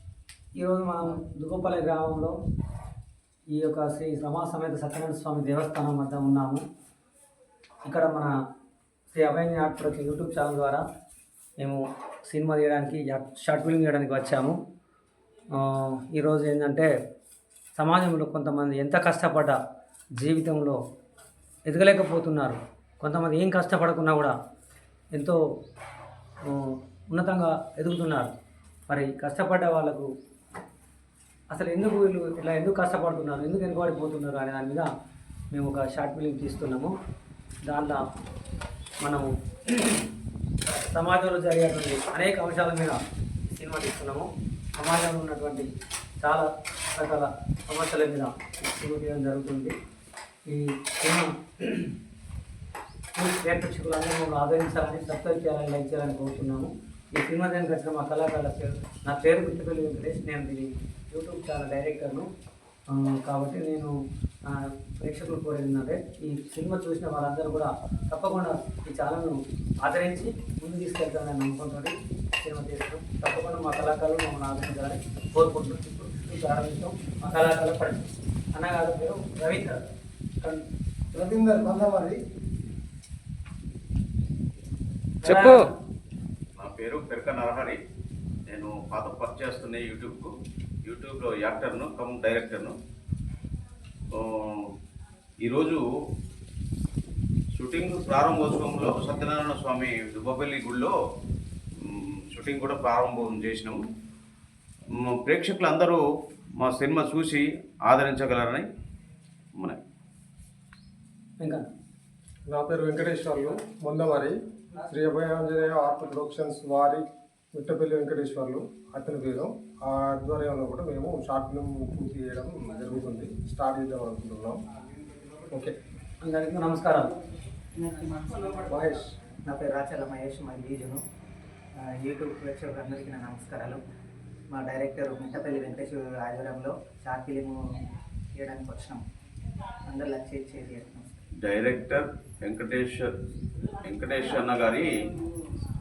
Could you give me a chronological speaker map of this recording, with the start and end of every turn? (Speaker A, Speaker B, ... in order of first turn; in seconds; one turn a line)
Speaker A: 0.6-2.3
Speaker A: 3.5-6.6
Speaker A: 7.8-8.3
Speaker A: 9.1-10.8
Speaker A: 11.6-14.6
Speaker A: 15.5-16.9
Speaker A: 17.8-19.6
Speaker A: 20.2-20.8
Speaker A: 21.6-24.3
Speaker A: 25.1-25.4
Speaker A: 26.4-28.3
Speaker A: 28.9-30.1
Speaker A: 31.5-34.9
Speaker A: 35.5-36.9
Speaker A: 37.6-38.0
Speaker A: 39.0-40.1
Speaker A: 40.6-45.7
Speaker A: 46.2-49.7
Speaker A: 50.5-51.9
Speaker A: 53.1-62.3
Speaker A: 62.9-79.8
Speaker B: 81.1-82.2
Speaker A: 85.2-85.7
Speaker C: 86.6-87.8
Speaker C: 88.5-92.7
Speaker C: 94.1-94.7
Speaker C: 95.4-95.8
Speaker C: 97.5-100.9
Speaker C: 101.8-103.9
Speaker C: 104.9-106.0
Speaker C: 106.6-108.7
Speaker A: 111.4-111.7
Speaker B: 112.5-124.6
Speaker B: 125.5-125.7
Speaker A: 126.2-127.1
Speaker D: 127.7-128.7
Speaker B: 128.7-129.1
Speaker D: 129.4-131.0
Speaker D: 131.8-133.8
Speaker D: 134.5-137.6
Speaker D: 138.3-139.0
Speaker D: 139.8-141.2
Speaker C: 141.4-143.1
Speaker C: 143.8-144.9